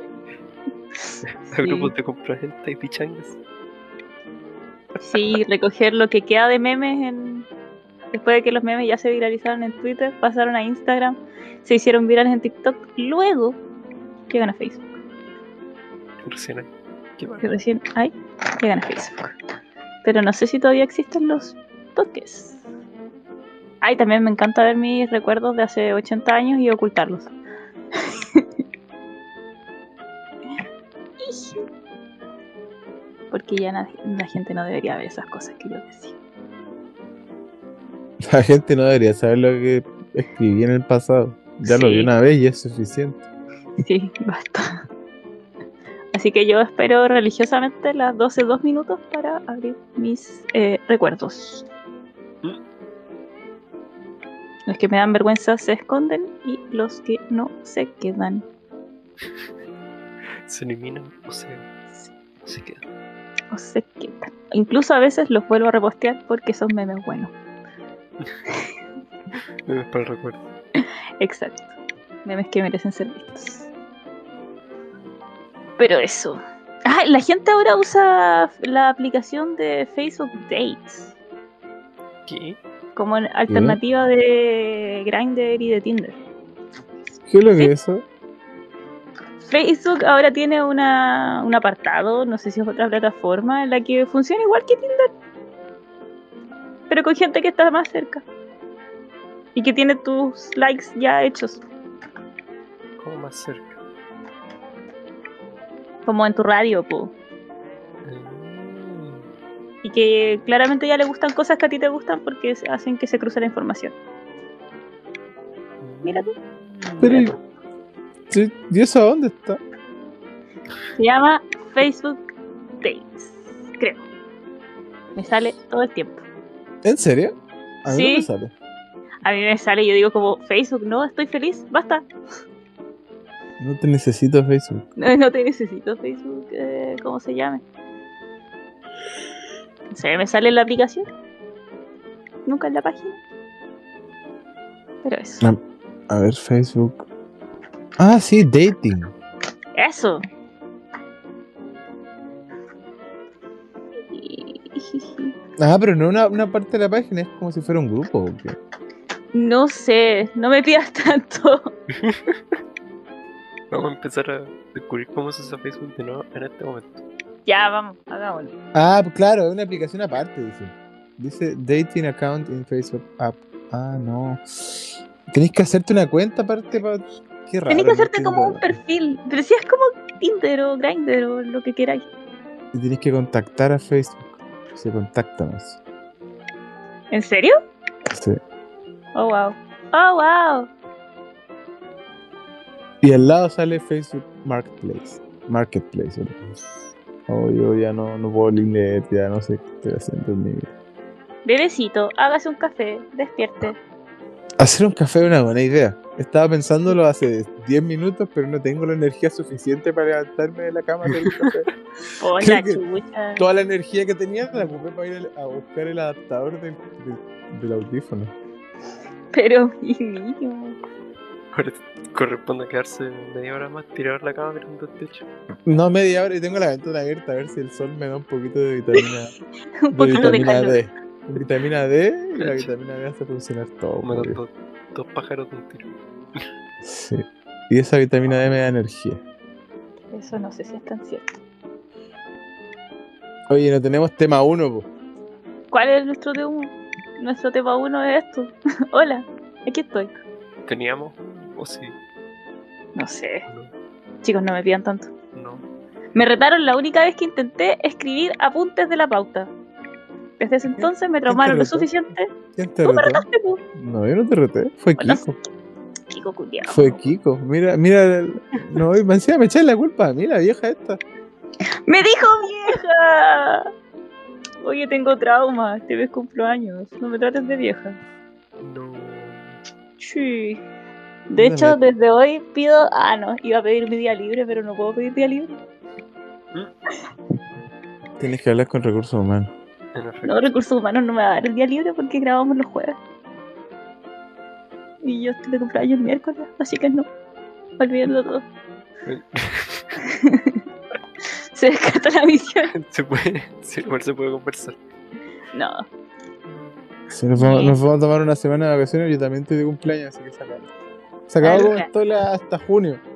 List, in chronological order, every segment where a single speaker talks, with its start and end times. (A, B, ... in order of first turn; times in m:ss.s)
0:01.0-0:01.9 A
0:01.2-0:03.4 B
0:05.0-0:07.5 A
0:08.1-0:13.6 A
0:14.3-0:14.8 A
0:16.2-0:17.5 B
0:17.4-0:19.3 A
0:20.0-0:22.6 A
0:23.8-0:27.3 A
0:28.0-0:28.4 A
0:31.2-0:31.6 A
0:33.3-0:36.2 A
0:38.2-0:43.2 C
0:41.6-0:42.1 A
0:43.8-0:44.6 A
0:46.1-0:51.6 A
0:54.7-0:58.4 A
1:00.4-1:02.8 B
1:03.5-1:07.3 A
1:09.7-1:10.4 B
1:11.2-1:11.7 A
1:12.2-1:13.7 A
1:15.8-1:21.1 A
1:22.3-1:22.6 B
1:23.0-1:26.2 A
1:23.5-1:23.8 C
1:27.3-1:28.0 C
1:29.4-1:35.1 A
1:36.9-1:38.2 A
1:39.5-1:41.6 A
1:43.0-1:43.8 B
1:46.0-1:47.1 A
1:48.0-1:49.2 B
1:49.8-1:53.9 A
1:55.8-1:57.3 B
1:56.0-1:56.3 A
1:57.0-1:57.4 C
1:58.3-1:59.6 C
2:01.0-2:02.2 A
2:02.8-2:04.0 A
2:05.2-2:06.2 A
2:06.8-2:08.5 C
2:07.9-2:08.3 A
2:09.2-2:12.0 A
2:13.6-2:14.9 C
2:15.0-2:17.6 A
2:19.9-2:21.0 A
2:22.4-2:23.2 A
2:25.0-2:25.4 A
2:26.1-2:27.0 C
2:28.0-2:29.1 C
2:29.8-2:30.2 A
2:34.1-2:35.3 A
2:35.6-2:38.6 C
2:39.3-2:41.7 A
2:41.9-2:42.4 B
2:43.7-2:47.0 B
2:47.4-2:48.5 A
2:48.7-2:58.8 C
2:57.7-3:02.1 A
3:02.7-3:05.8 C
3:07.1-3:07.5 A
3:08.1-3:08.4 C
3:09.1-3:10.7 A
3:13.0-3:16.4 C
3:17.3-3:20.7 C
3:21.4-3:23.8 A
3:24.6-3:31.7 C
3:31.1-3:31.5 B
3:32.2-3:33.4 A
3:32.4-3:32.8 C
3:33.4-3:38.3 C
3:39.3-3:40.8 A
3:41.5-3:45.2 B
3:45.6-3:49.3 C
3:49.8-3:50.8 A
3:49.9-3:54.4 C
3:52.4-3:52.7 B
3:54.0-3:56.4 B
3:56.8-3:59.2 C
4:00.1-4:01.3 A
4:03.5-4:04.9 C
4:05.7-4:10.1 A
4:10.6-4:12.0 B
4:12.9-4:13.5 A
4:14.2-4:15.1 A
4:15.3-4:15.6 B
4:16.1-4:19.5 A
4:20.4-4:22.3 A
4:20.7-4:21.9 C
4:22.5-4:25.4 C
4:22.8-4:23.6 A
4:25.0-4:25.3 A
4:26.1-4:27.1 A
4:26.7-4:31.0 C
4:31.8-4:33.7 A
4:34.6-4:38.0 A
4:38.6-4:39.5 B
4:40.0-4:40.6 A
4:41.3-4:45.6 A
4:41.4-4:41.8 C
4:48.2-4:49.5 C
4:49.9-4:50.5 B
4:50.2-4:53.0 A
4:55.0-4:57.1 A
4:57.8-4:58.4 A
4:59.0-4:59.9 B
5:00.0-5:00.6 A
5:01.5-5:02.7 A
5:02.7-5:04.8 B
5:05.5-5:05.8 A
5:07.1-5:10.7 C
5:07.4-5:07.8 A
5:11.3-5:13.0 C
5:11.4-5:11.9 A